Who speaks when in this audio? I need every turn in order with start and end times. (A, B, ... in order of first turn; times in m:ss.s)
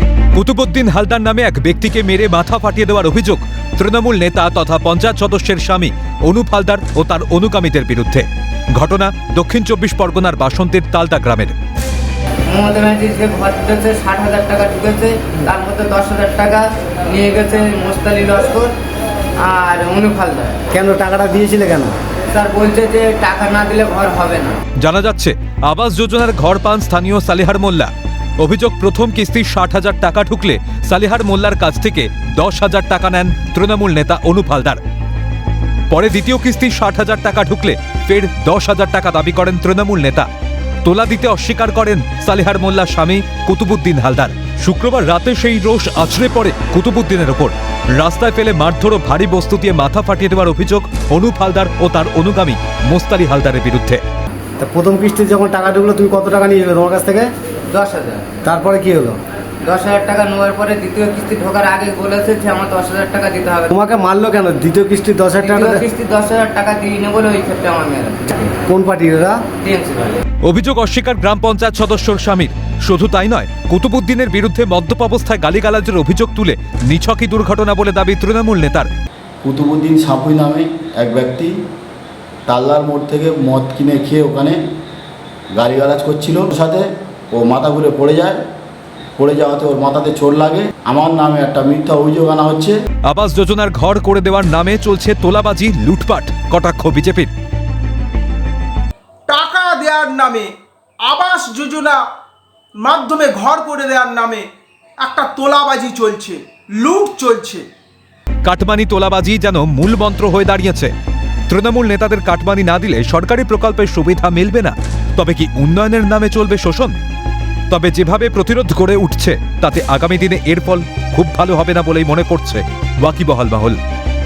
0:00.3-0:11.6 A
0:12.5-0:18.7 B
0:19.4-0:20.6 B
0:20.7-0:22.0 C
0:22.3-0:24.6 B
0:24.8-0:34.8 A
0:35.9-0:40.3 A
0:40.8-0:54.0 A
0:54.6-0:57.3 C
0:57.7-0:58.4 B
0:58.4-0:59.2 C
0:59.6-1:03.7 B
1:03.7-1:05.8 C
1:05.4-1:08.6 B
1:08.7-1:09.4 C
1:09.6-1:10.2 B
1:10.4-1:18.9 A
1:19.4-1:21.5 D
1:22.5-1:24.6 D
1:25.5-1:28.4 D
1:29.2-1:32.7 D
1:33.1-1:37.3 A
1:39.3-1:42.0 E
1:42.8-1:44.5 E
1:45.0-1:47.7 E
1:48.4-1:50.9 A
1:51.5-1:56.9 A
1:57.7-2:03.8 A